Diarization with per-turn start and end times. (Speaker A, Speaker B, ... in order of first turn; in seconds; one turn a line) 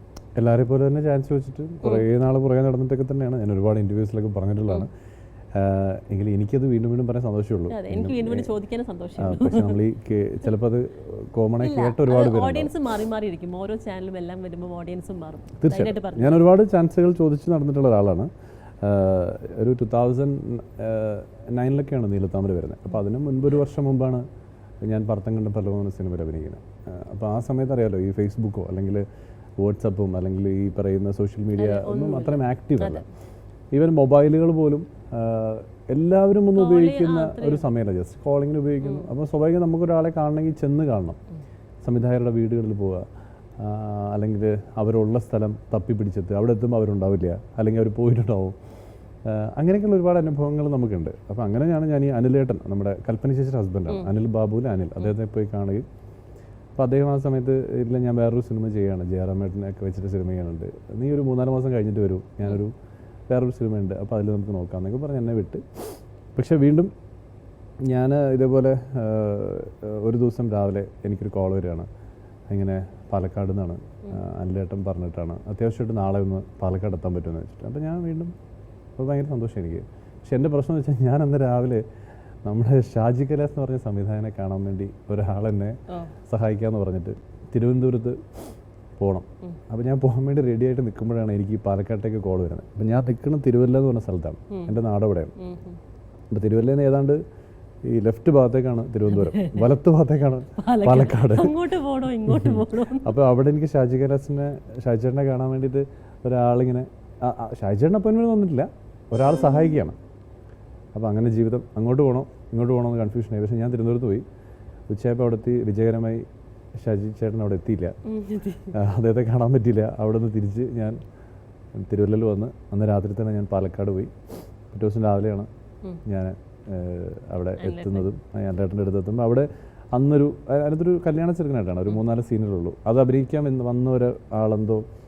Speaker A: 0.3-4.9
Speaker A: 5.5-8.5
Speaker B: 7.7-9.8
Speaker A: 9.2-12.7
Speaker B: 11.6-16.4
Speaker A: 15.6-18.3
Speaker A: 18.8-24.2
Speaker A: 24.8-29.0
Speaker A: 29.6-33.0
Speaker B: 31.5-33.0
Speaker A: 33.7-41.2
Speaker B: 36.5-37.6
Speaker B: 38.8-39.1
Speaker A: 41.8-43.0
Speaker A: 43.6-48.5
Speaker A: 49.2-55.8
Speaker A: 56.8-62.7
Speaker A: 63.3-66.9
Speaker A: 67.9-71.9
Speaker A: 72.5-78.3
Speaker A: 79.0-81.8
Speaker A: 82.4-85.7
Speaker A: 86.3-95.3
Speaker B: 94.5-94.8
Speaker B: 95.4-95.8
Speaker A: 96.3-97.2
Speaker A: 97.8-101.6
Speaker B: 99.1-99.7
Speaker B: 100.6-103.1
Speaker A: 102.2-110.0
Speaker A: 110.9-114.2
Speaker A: 114.9-116.2
Speaker A: 116.8-117.9
Speaker B: 118.1-118.7
Speaker A: 118.7-121.0
Speaker A: 121.8-124.1
Speaker A: 124.7-125.5
Speaker A: 126.0-134.8
Speaker B: 127.6-128.1